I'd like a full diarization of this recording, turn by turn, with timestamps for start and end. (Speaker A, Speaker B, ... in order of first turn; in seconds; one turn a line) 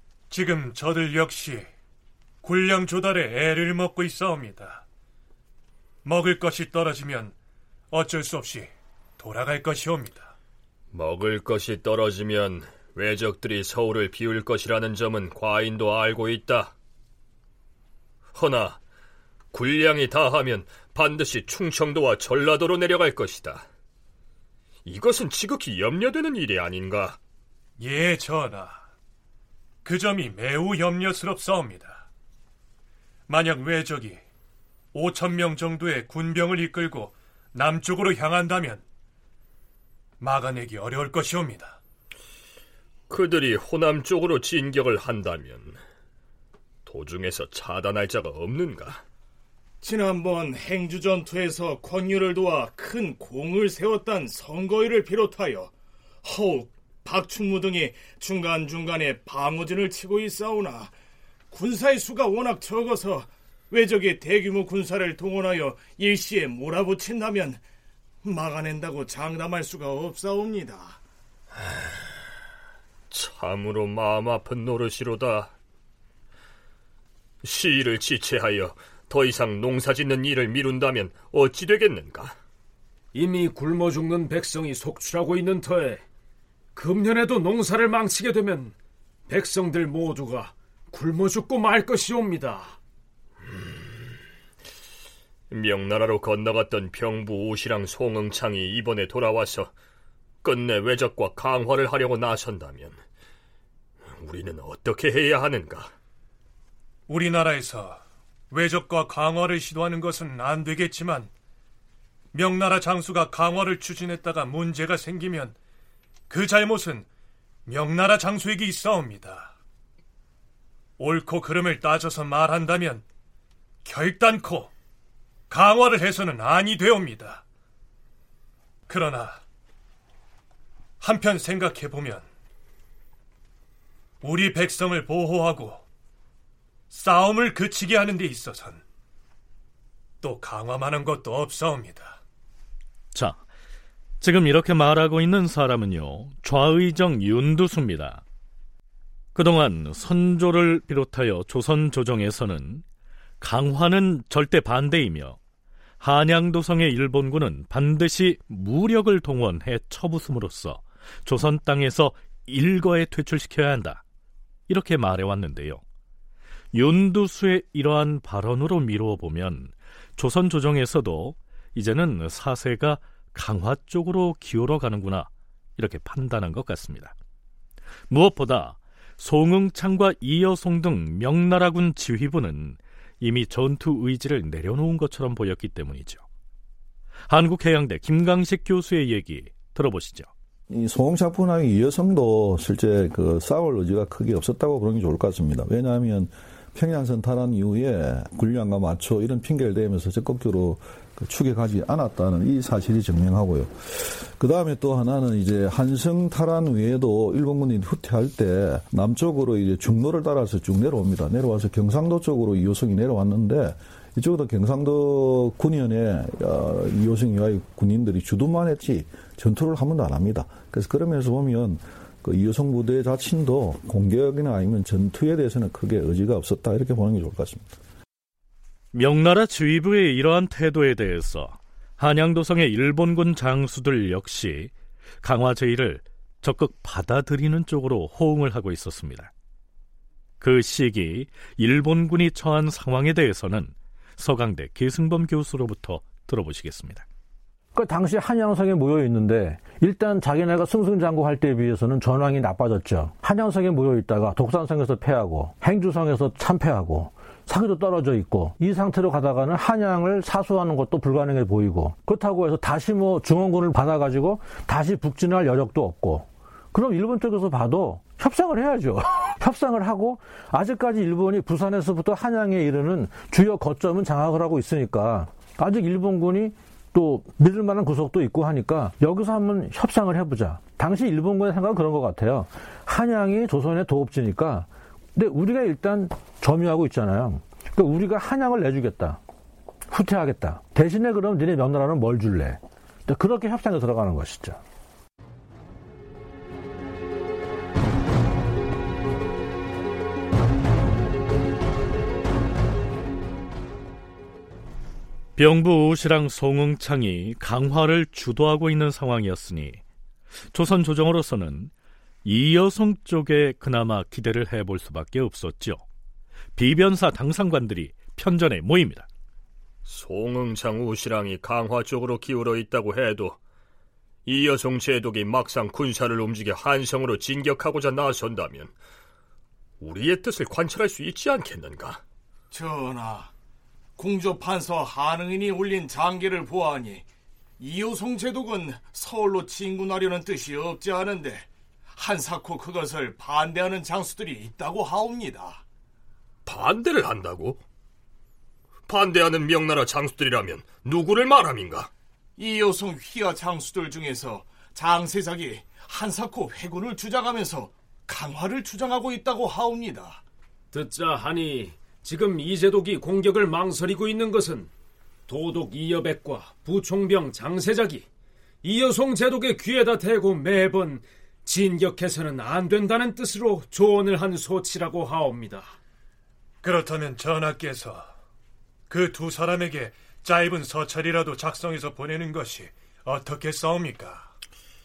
Speaker A: 0.3-1.7
Speaker A: 2.4-4.8
Speaker A: 6.0-7.3
Speaker A: 7.9-10.3
Speaker B: 10.9-16.7
Speaker B: 18.3-18.8
Speaker B: 19.5-23.7
Speaker B: 24.9-27.2
Speaker A: 27.8-28.8
Speaker A: 29.8-32.0
Speaker A: 33.3-34.2
Speaker A: 34.9-38.8
Speaker A: 40.2-41.8
Speaker B: 43.1-45.8
Speaker B: 46.9-49.0
Speaker C: 49.8-60.9
Speaker C: 61.5-67.7
Speaker C: 68.2-71.0
Speaker B: 73.1-75.5
Speaker B: 77.4-82.3
Speaker D: 83.1-86.0
Speaker D: 86.8-88.8
Speaker D: 89.3-92.8
Speaker B: 95.5-99.7
Speaker B: 100.4-103.0
Speaker B: 104.2-105.9
Speaker A: 107.1-108.0
Speaker A: 108.5-111.3
Speaker A: 112.3-115.6
Speaker A: 116.3-117.1
Speaker A: 117.7-119.5
Speaker A: 121.0-123.0
Speaker A: 123.8-124.7
Speaker A: 125.5-127.4
Speaker A: 128.9-129.4
Speaker A: 131.0-132.2
Speaker A: 134.2-135.8
Speaker A: 136.9-138.8
Speaker A: 140.2-142.2
Speaker E: 143.1-143.4
Speaker E: 144.2-148.2
Speaker E: 149.3-152.8
Speaker E: 153.4-155.4
Speaker E: 156.0-164.0
Speaker E: 164.7-165.8
Speaker E: 166.7-177.1
Speaker E: 178.1-186.2
Speaker E: 187.3-190.3
Speaker F: 190.7-227.8
Speaker E: 228.9-239.3
Speaker E: 240.4-247.1
Speaker G: 247.7-289.2
Speaker G: 289.9-294.6
Speaker E: 305.4-309.8
Speaker E: 310.5-311.7
Speaker E: 312.2-315.8
Speaker E: 316.6-319.1
Speaker B: 319.9-323.4
Speaker B: 324.2-328.7
Speaker B: 329.8-332.0
Speaker C: 332.5-333.3
Speaker C: 334.0-337.1
Speaker C: 337.6-345.6
Speaker B: 346.5-347.6
Speaker B: 348.9-351.9
Speaker C: 352.4-360.2
Speaker D: 360.7-364.7
Speaker D: 365.3-368.1
Speaker D: 368.6-375.8
Speaker A: 376.6-378.1
Speaker A: 378.9-384.3